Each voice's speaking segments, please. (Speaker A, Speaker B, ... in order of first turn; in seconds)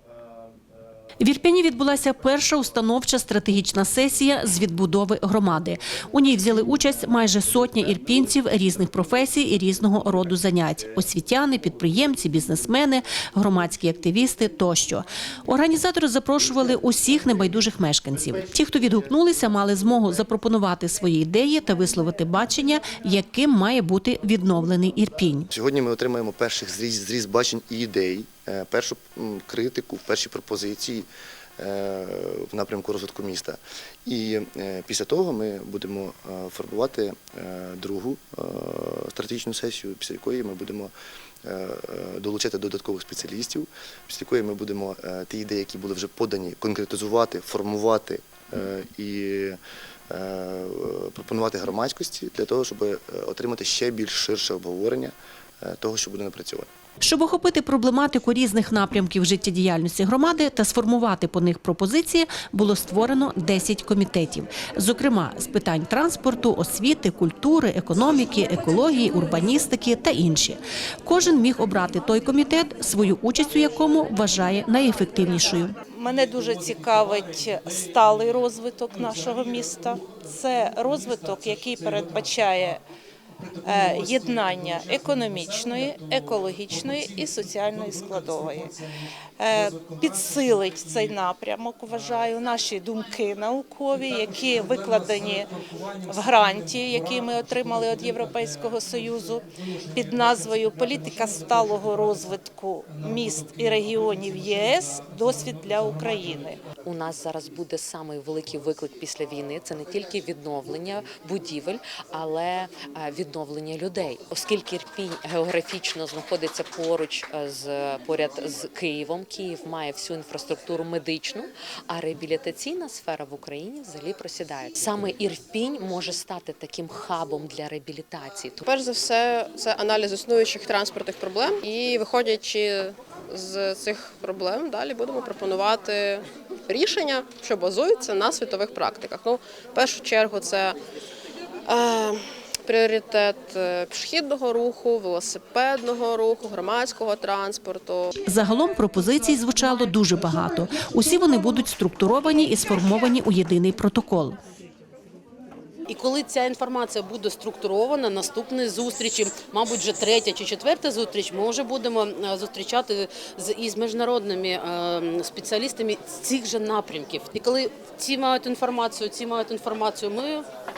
Speaker A: 1.2-25.5, 57.0-75.7, 148.2-154.4
Speaker B: 25.5-31.1, 31.6-40.9, 41.4-49.6, 50.1-56.7
Speaker C: 75.9-82.8, 83.6-88.8, 89.4-95.5, 96.0-106.6
Speaker D: 106.8-128.6
Speaker E: 128.6-140.8, 141.7-148.1
Speaker F: 155.9-170.4